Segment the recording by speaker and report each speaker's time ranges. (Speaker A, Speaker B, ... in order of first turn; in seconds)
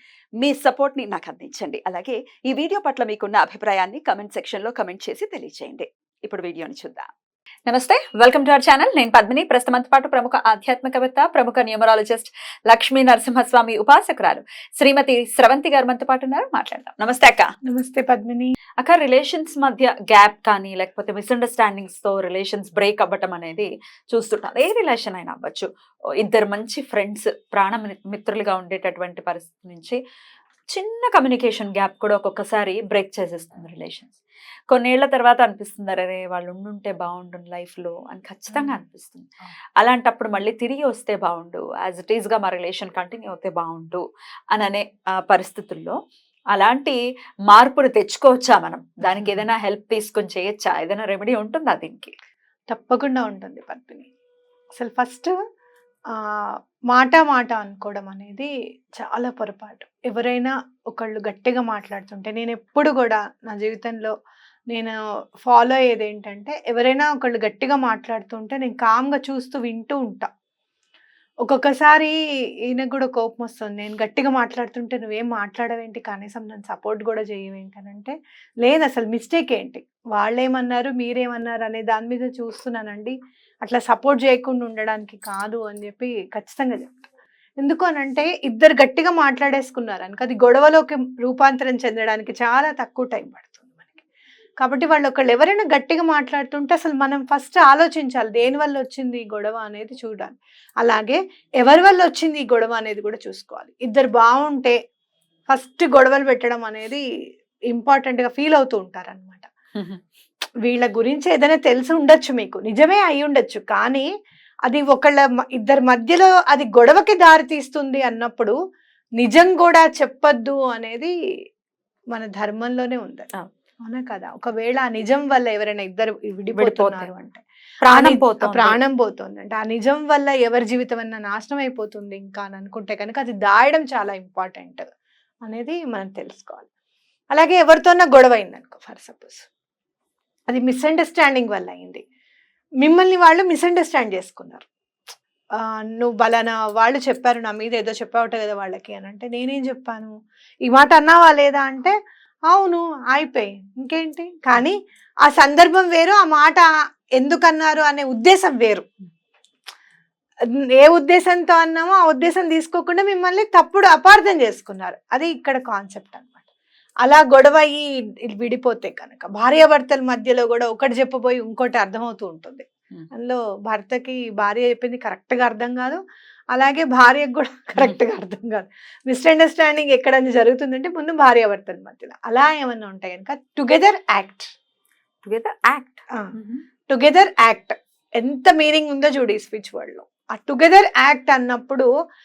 Speaker A: 0.4-7.1, 7.7-17.5, 18.8-25.7, 26.2-30.0, 30.7-34.2, 34.7-44.0, 44.5-46.0, 46.5-47.0, 47.5-52.1, 126.6-127.1, 127.8-128.8, 185.2-186.7
Speaker B: 17.7-18.6, 38.5-38.8, 49.1-49.4, 52.7-54.1, 54.8-55.3, 56.4-64.1, 64.7-70.3, 71.5-72.2, 72.7-87.1, 87.6-94.0, 94.6-104.8, 105.5-107.0, 107.7-109.5, 110.7-114.1, 114.7-118.5, 119.2-121.1, 122.1-123.3, 123.9-134.8, 135.4-136.7, 137.3-139.5, 140.5-142.0, 142.8-144.7, 145.6-150.1, 150.7-151.9, 152.5-158.8, 160.8-166.4, 167.1-176.0, 176.5-184.5, 186.9-191.9